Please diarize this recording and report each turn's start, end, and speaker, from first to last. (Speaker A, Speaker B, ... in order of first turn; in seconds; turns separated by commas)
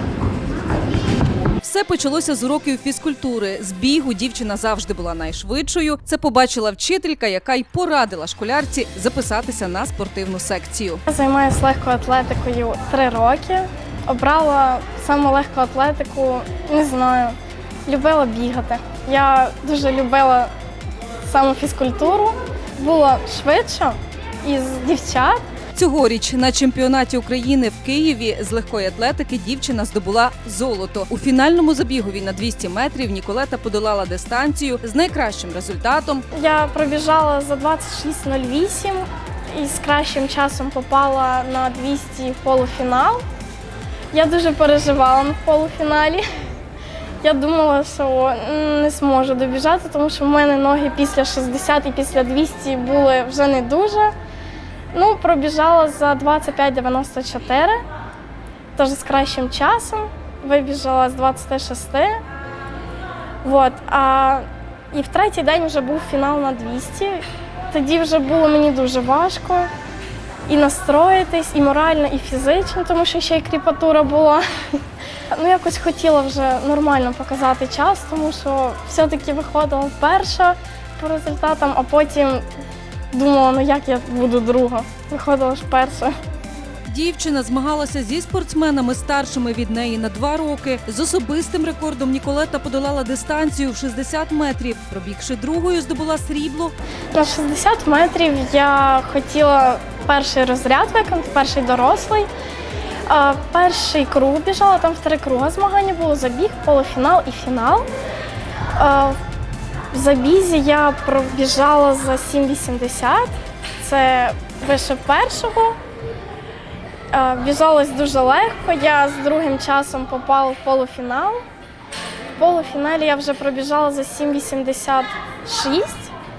Speaker A: 1.6-11.0, Speaker B: 11.1-20.5, Speaker B: 21.2-25.4, Speaker A: 25.8-36.2, Speaker B: 36.3-43.2, Speaker B: 44.1-46.2, Speaker B: 47.2-54.1, Speaker B: 54.9-57.8, Speaker B: 58.8-62.2, Speaker B: 63.4-69.7, Speaker B: 70.5-82.5, Speaker B: 83.1-86.1, Speaker A: 86.9-96.8, Speaker B: 97.1-102.3, Speaker B: 103.1-107.9, Speaker B: 108.8-109.2, Speaker B: 109.9-115.8, Speaker B: 117.1-121.4, Speaker B: 122.4-126.1